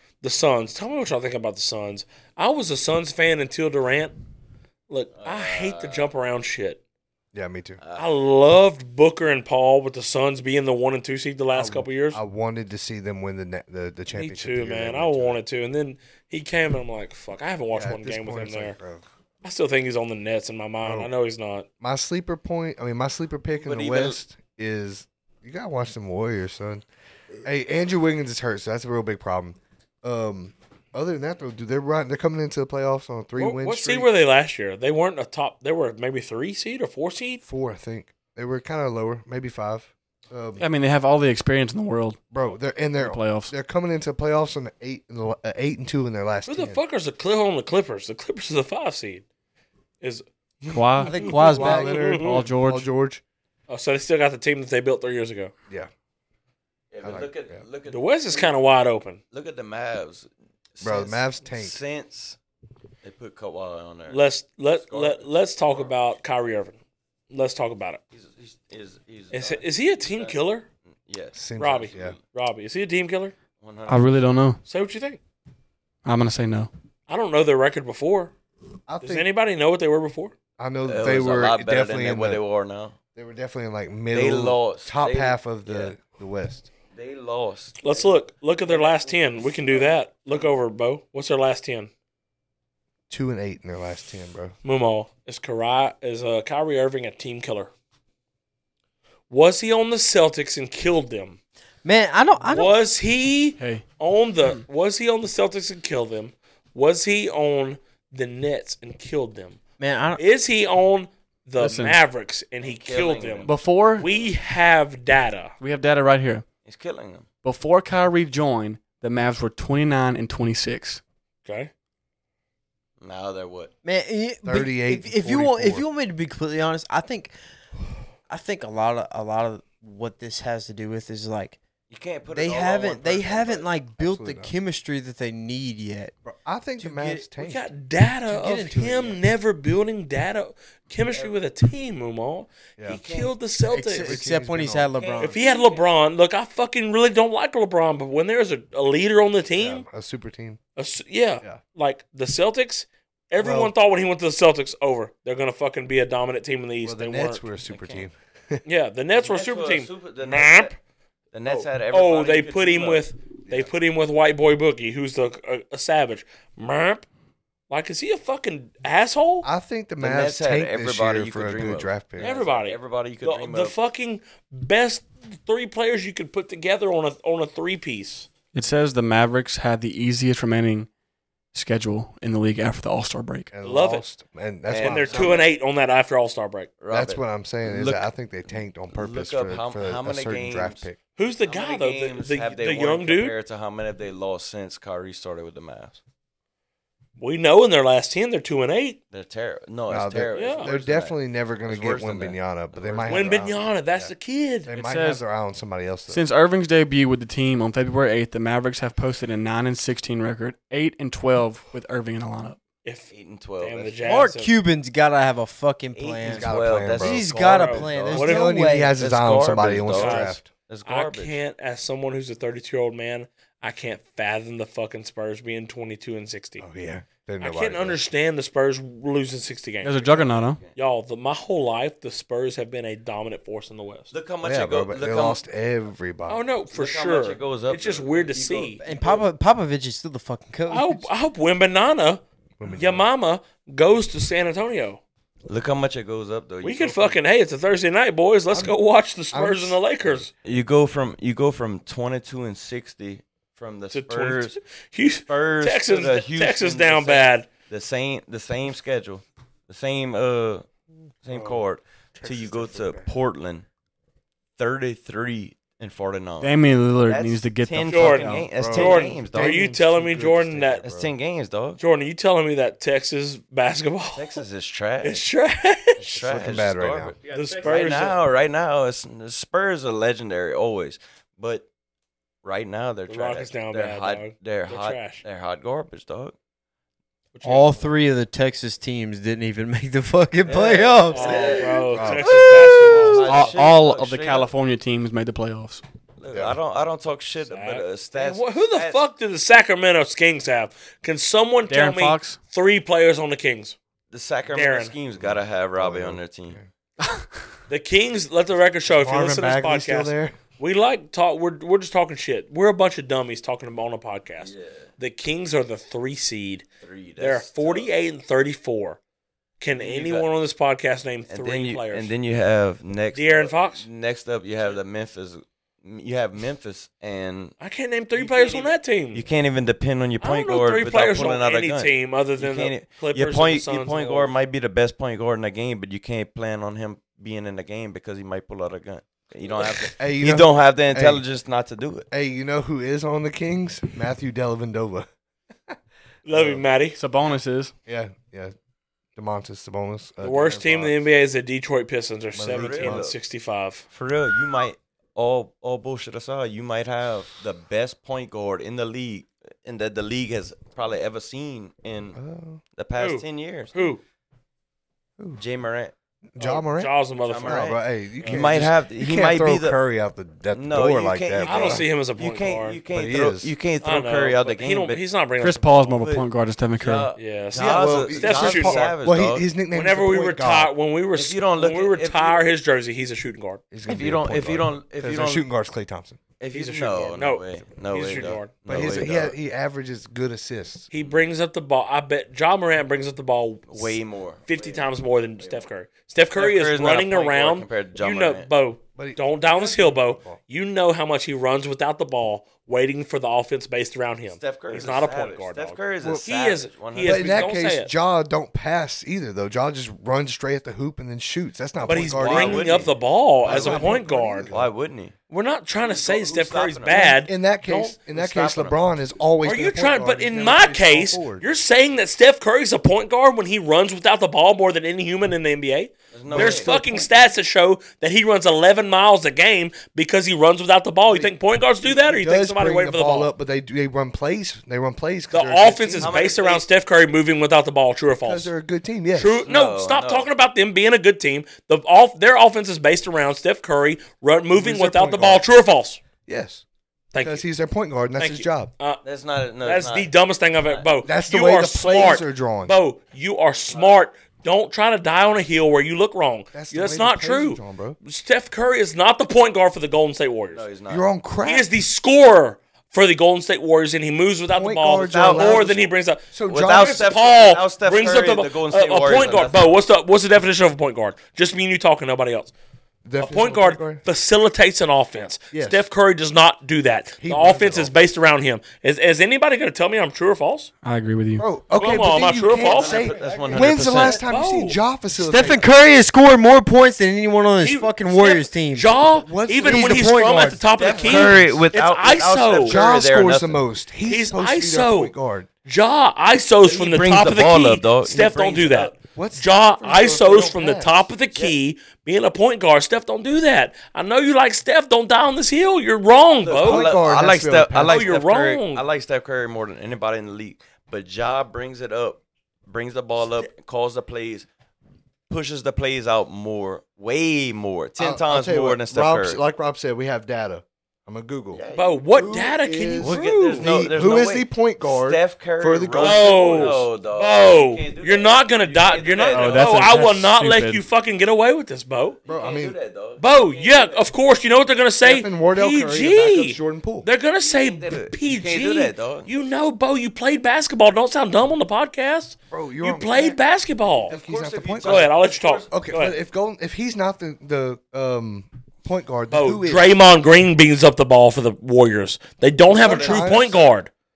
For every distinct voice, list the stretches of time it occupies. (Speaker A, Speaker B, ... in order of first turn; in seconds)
Speaker A: 0.2-4.2, 4.9-6.8, 8.0-12.2, 14.1-18.8, 19.4-21.6, 33.4-37.4, 46.5-49.2, 51.0-52.4, 53.7-55.5, 57.9-59.2, 64.1-66.8, 67.3-68.0, 69.3-70.7, 71.6-73.3, 74.7-75.2, 77.1-78.3, 79.0-80.3, 87.8-91.9, 94.6-97.7, 99.3-101.4, 102.5-109.6, 110.2-115.5, 121.5-121.7, 137.4-144.2, 145.2-149.8, 150.8-157.5, 158.6-160.8, 161.5-167.1, 167.7-169.5, 172.2-178.3, 183.6-184.1, 184.8-186.7, 191.2-193.4, 197.2-199.0, 200.3-200.7, 203.1-204.7, 212.8-214.5, 217.5-218.6, 219.8-226.6, 227.4-230.0, 230.8-234.1, 236.3-238.8, 240.7-245.0, 246.6-250.3, 253.9-257.5, 267.9-270.9, 271.8-274.4, 275.0-276.1, 277.3-278.2, 283.1-285.2, 287.3-287.9, 291.1-293.5, 297.5-303.8, 304.5-304.9, 307.7-316.6, 317.2-319.0, 319.6-322.1, 323.1-323.9, 327.6-329.2, 330.2-334.3, 346.2-347.0, 350.2-353.8, 363.0-364.0, 366.4-368.7, 371.4-372.8, 373.8-375.9, 377.1-378.9, 379.7-383.6, 386.5-389.1, 390.9-407.9, 411.9-414.5, 415.3-417.9, 419.4-433.3, 435.3-438.5, 439.1-446.0, 447.1-447.4, 448.2-449.0, 449.6-460.6, 461.5-472.5, 473.2-480.7, 481.8-483.1, 484.2-484.8, 487.6-492.8, 494.1-495.1, 495.6-507.0, 507.9-508.9, 521.8-523.7, 526.0-532.2, 533.2-544.1, 544.8-546.2, 549.3-553.9
Speaker B: 5.1-6.1, 7.8-8.1, 23.6-24.2, 56.9-58.5, 59.3-62.4, 63.0-64.2, 64.8-66.0, 68.1-70.4, 71.1-72.2, 73.6-74.2, 80.8-83.0, 84.1-85.9, 86.9-90.5, 112.6-114.3, 116.6-117.3, 123.0-123.7, 131.9-133.7, 141.1-141.4, 142.9-143.3, 144.9-145.9, 157.7-158.1, 159.1-160.7, 161.3-163.1, 170.0-173.8, 184.7-185.5, 186.8-190.9, 191.4-196.0, 199.1-203.3, 213.1-214.0, 215.9-218.3, 219.0-221.4, 230.0-230.7, 234.1-235.4, 236.7-239.2, 245.5-247.2, 250.4-254.6, 255.3-260.7, 261.2-263.6, 264.6-269.8, 270.8-271.8, 274.1-275.2, 276.0-281.7, 282.4-286.4, 290.4-294.5, 296.2-299.0, 304.1-306.6, 314.4-314.9, 316.8-317.9, 319.8-320.3, 321.3-327.5, 328.1-342.1, 352.5-353.1, 353.9-362.2, 362.8-363.8, 365.4-365.9, 367.2-369.8, 370.5-375.0, 375.7-379.5, 381.1-382.4, 383.9-385.5, 386.4-389.4, 391.0-391.3, 393.7-395.7, 396.3-398.5, 404.3-407.5, 411.8-415.1, 415.8-417.1, 418.1-418.8, 426.1-426.8, 436.0-436.6, 439.4-440.3, 449.0-450.1, 450.6-450.9, 453.7-454.0, 460.5-461.1, 465.0-465.9, 466.5-469.7, 482.6-484.2, 490.8-493.6, 496.6-498.9, 506.4-514.5, 515.3-519.4, 521.5-522.4, 523.0-529.9, 532.2-534.1, 537.4-539.3, 543.9-545.7, 552.7-553.6
Speaker C: 7.3-7.8, 11.5-15.4, 17.7-19.1, 20.8-21.1, 21.8-26.8, 27.4-34.1, 37.4-40.6, 42.3-46.8, 51.4-53.2, 57.0-57.6, 60.8-61.8, 71.3-72.2, 78.9-79.3, 80.6-82.4, 83.2-86.7, 93.1-94.5, 124.4-125.8, 134.0-134.5, 136.2-137.7, 143.8-144.9, 149.6-150.6, 153.4-153.7, 156.8-158.6, 169.4-172.3, 183.5-185.5, 186.9-191.0, 199.9-204.1, 204.7-206.2, 216.2-217.4, 218.1-220.5, 226.6-228.0, 234.4-236.4, 242.6-243.1, 249.3-250.3, 261.3-261.6, 262.2-263.1, 268.4-271.1, 276.1-277.1, 291.9-292.3, 296.3-296.6, 305.2-306.7, 308.9-310.4, 339.8-341.2, 342.1-345.1, 346.3-346.6, 347.9-348.5, 349.1-351.0, 352.4-353.1, 362.1-362.6, 366.3-371.9, 372.9-373.5, 377.5-380.7, 383.7-386.2, 388.1-390.9, 399.0-400.4, 407.0-412.9, 413.4-414.7, 416.9-421.5, 426.3-427.2, 431.1-431.3, 431.9-436.2, 438.2-439.4, 444.5-445.5, 446.2-446.6, 447.2-448.7, 451.0-452.8, 456.5-458.0, 460.9-461.7, 464.5-467.1, 473.0-474.0, 475.5-475.9, 477.2-477.9, 481.4-485.6, 489.1-491.6, 492.6-495.5, 499.1-500.9, 506.5-508.1, 518.0-521.6, 522.1-526.8, 532.2-532.8, 535.0-537.1, 542.5-543.4, 544.1-545.1, 545.7-549.9, 552.7-553.7
Speaker D: 40.6-42.2, 43.0-43.5, 50.7-52.9, 73.9-74.6, 76.0-76.7, 103.6-103.8, 111.6-112.0, 113.5-114.1, 115.6-116.4, 117.4-121.0, 178.5-180.9, 181.5-183.5, 204.7-205.2, 206.1-212.6, 229.8-230.6, 266.4-268.5, 293.2-295.8, 301.7-302.4, 347.0-347.7, 375.4-377.1, 480.8-481.5, 529.3-530.8
Speaker E: 51.0-52.2, 101.8-102.8, 109.8-110.2, 123.8-127.3, 128.3-131.6, 132.3-136.1, 136.8-137.2, 138.3-139.2, 143.7-145.4, 214.0-218.9, 238.8-241.1, 287.4-291.7, 292.3-293.2, 485.1-488.9